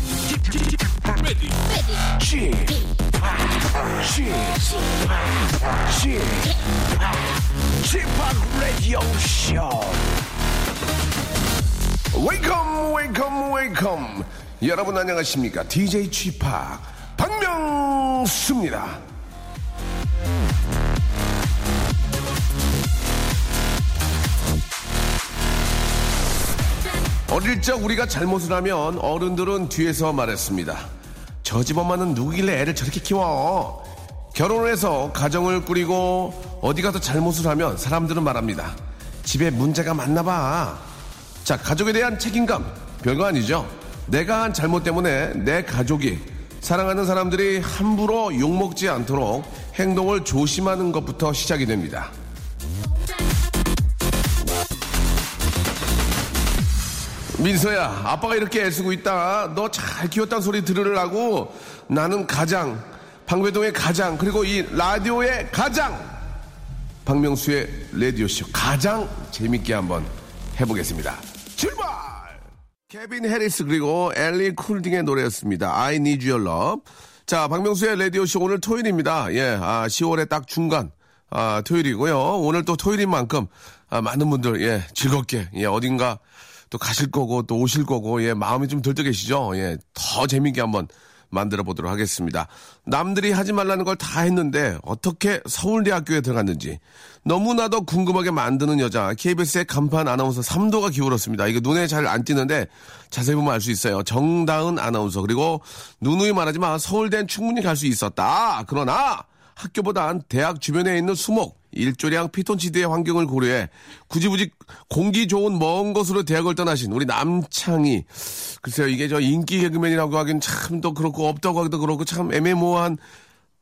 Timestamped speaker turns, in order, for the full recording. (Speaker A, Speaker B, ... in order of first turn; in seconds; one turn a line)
Speaker A: 0.3-10.2
Speaker A: 12.1-19.0
Speaker A: 27.3-30.9
Speaker A: 31.4-40.9
Speaker A: 41.4-52.1
Speaker A: 57.3-66.2
Speaker A: 67.0-86.2
Speaker A: 86.7-123.0